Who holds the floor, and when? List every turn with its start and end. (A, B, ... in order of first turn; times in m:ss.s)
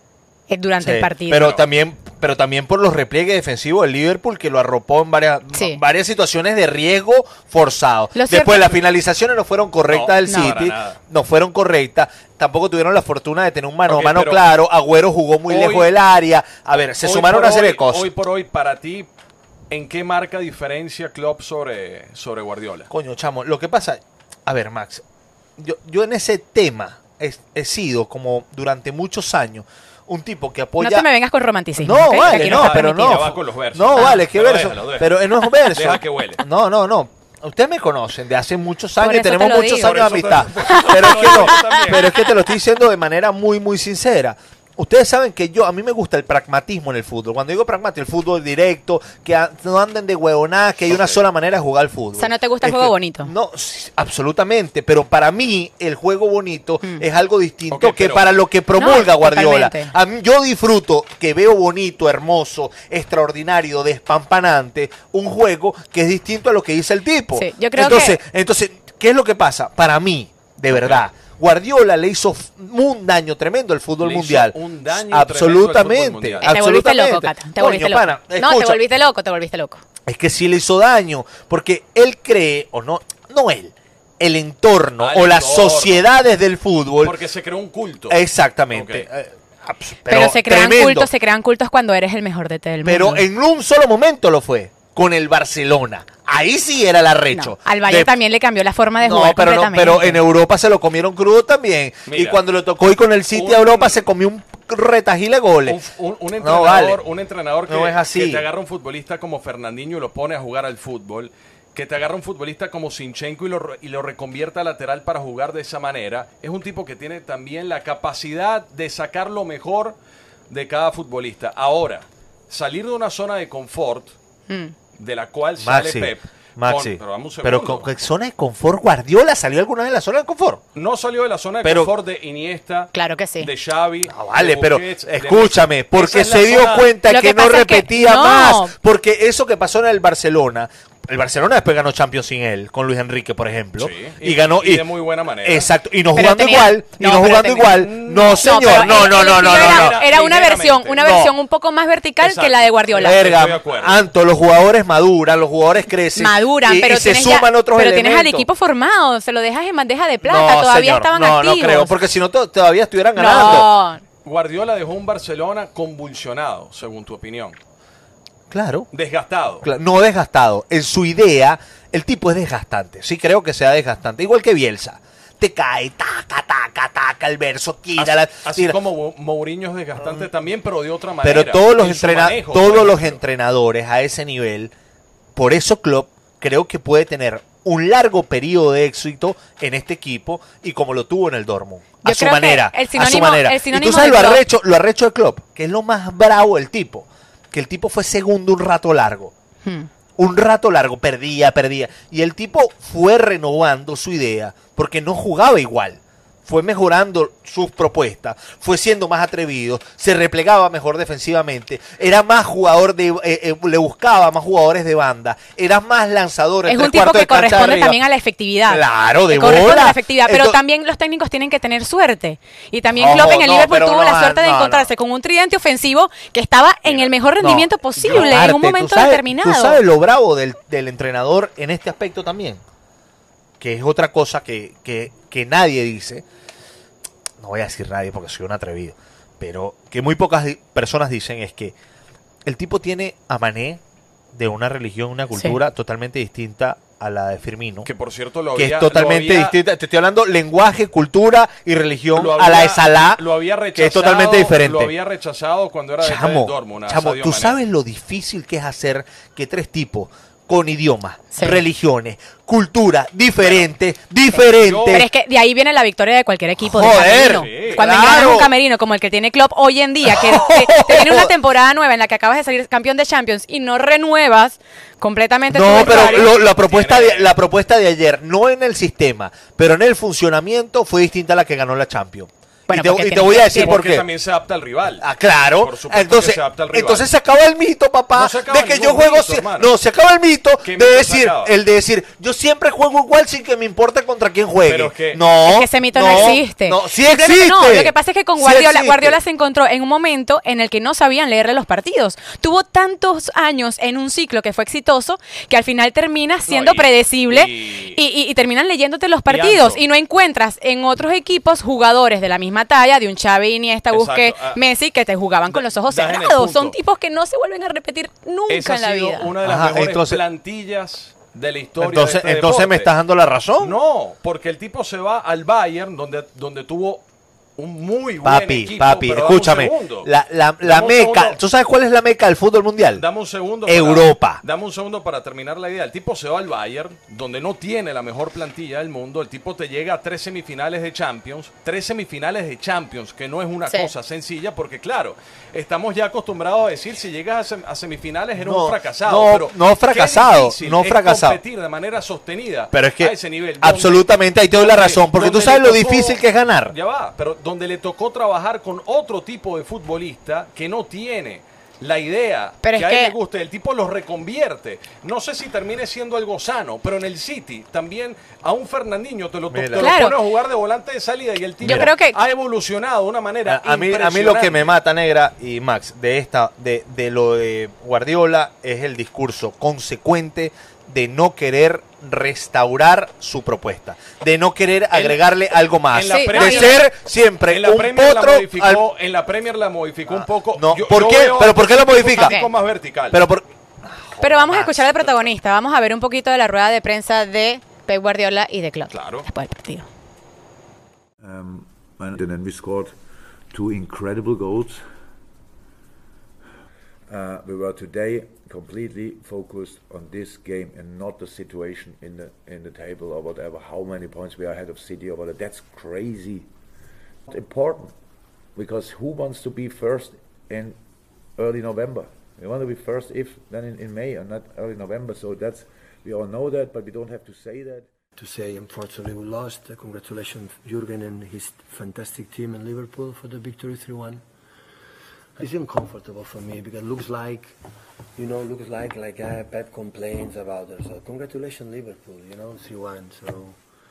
0:00.5-0:01.6 A
0:00.8-0:18.1 B
0:01.4-0:01.6 C
0:05.5-0:05.8 A
0:08.2-0:08.7 A
0:09.9-0:11.0 C
0:10.3-0:10.5 A
0:13.9-0:14.4 C
0:15.5-0:15.9 C
0:17.0-0:19.1 C
0:19.7-0:22.9 C
0:22.9-0:25.0 B
0:25.6-0:31.1 B
0:30.8-0:33.2 A
0:31.8-1:18.8 B
0:32.1-0:36.4 C
0:34.0-0:34.2 A
0:39.0-0:42.3 A
0:39.8-0:42.3 C
0:52.2-0:53.3 A
0:57.7-0:58.3 C
0:58.8-0:59.9 A
1:07.3-1:08.2 A
1:10.7-1:11.0 C
1:14.0-1:16.5 C
1:16.4-1:19.8 A
1:20.1-1:27.2 B
1:25.0-1:26.1 C
1:27.0-1:28.2 C
1:28.1-1:31.1 B
1:28.7-1:29.1 C
1:30.1-1:33.3 A
1:32.8-1:38.2 B
1:37.3-1:40.2 A
1:39.0-1:45.8 B
1:42.1-1:42.4 C
1:43.3-1:44.0 C
1:45.7-2:00.0 C
1:46.4-1:47.0 B
1:47.7-1:48.5 B
2:00.5-2:04.1 C
2:04.5-2:04.8 A
2:05.0-2:07.9 C
2:05.6-2:10.6 B
2:10.8-2:16.9 C
2:11.6-2:11.9 B
2:12.9-2:13.5 A
2:14.1-2:24.9 B
2:17.1-2:18.7 A
2:23.8-2:25.7 C
2:25.4-2:30.0 B
2:26.1-2:33.3 A
2:27.6-2:31.0 C
2:31.0-2:31.3 B
2:32.2-2:34.0 C
2:32.9-2:38.5 B
2:36.2-2:42.0 A
2:40.2-2:43.7 B
2:43.2-2:44.0 A
2:43.4-2:43.7 C
2:44.2-2:47.6 C
2:48.5-2:48.9 B
2:48.9-2:49.7 C
2:49.6-2:58.8 B
2:58.0-3:03.2 C
3:01.2-3:04.7 B
3:05.4-3:19.3 B
3:12.0-3:14.4 A
3:20.2-3:38.0 B
3:36.7-3:49.8 A
3:38.7-3:40.6 B
3:43.0-3:44.9 B
3:47.4-3:52.6 B
3:48.0-3:48.4 C
3:53.6-3:56.2 B
3:57.4-4:01.7 B
4:02.5-4:03.8 B
4:04.3-4:07.9 B
4:07.8-4:09.6 C
4:08.6-4:13.2 B
4:12.1-4:17.6 C
4:13.8-4:14.9 B
4:16.0-4:25.1 B
4:21.3-4:21.6 A
4:23.4-4:23.7 C
4:24.4-4:25.1 C
4:24.9-4:36.3 A
4:26.6-4:28.5 B
4:27.2-4:28.0 C
4:30.1-4:31.3 B
4:35.5-4:44.1 B
4:35.7-4:37.3 C
4:42.7-4:43.8 A
4:43.3-4:45.1 C
4:45.0-4:59.2 B
4:45.6-4:47.1 C
4:48.1-4:49.7 C
4:50.6-4:51.5 C
4:54.6-4:55.2 C
4:55.4-5:19.3 A
4:56.0-4:56.4 C
5:06.5-5:08.0 C
5:09.3-5:09.8 C
5:13.9-5:14.6 C
5:15.5-5:16.8 C
5:18.5-5:22.9 C
5:19.4-5:20.2 B
5:21.8-5:23.8 B
5:23.6-5:27.0 C
5:27.6-5:30.1 C
5:28.2-5:33.0 B
5:30.6-5:31.4 C
5:33.0-6:14.7 C
5:33.7-5:34.4 B
5:48.4-5:51.4 B
5:52.7-5:56.8 B
6:02.6-6:03.1 A
6:09.5-6:09.9 B
6:09.8-6:10.2 A
6:11.6-6:11.9 B
6:11.6-6:12.2 A
6:13.5-6:28.8 B
6:24.9-6:25.2 C
6:25.9-6:26.9 C
6:26.1-6:26.8 A
6:27.5-6:33.2 C
6:30.1-6:32.4 B
6:32.2-6:32.5 A
6:33.1-6:34.9 B
6:34.2-6:39.9 A
6:38.9-6:39.3 C
6:41.2-6:42.9 D
6:43.5-6:44.8 D
6:47.1-6:56.5 D
6:57.3-6:57.9 D
6:58.6-7:00.8 D
7:01.4-7:07.9 D
7:08.2-7:14.2 E
7:15.4-7:17.6 E
7:18.2-7:23.6 E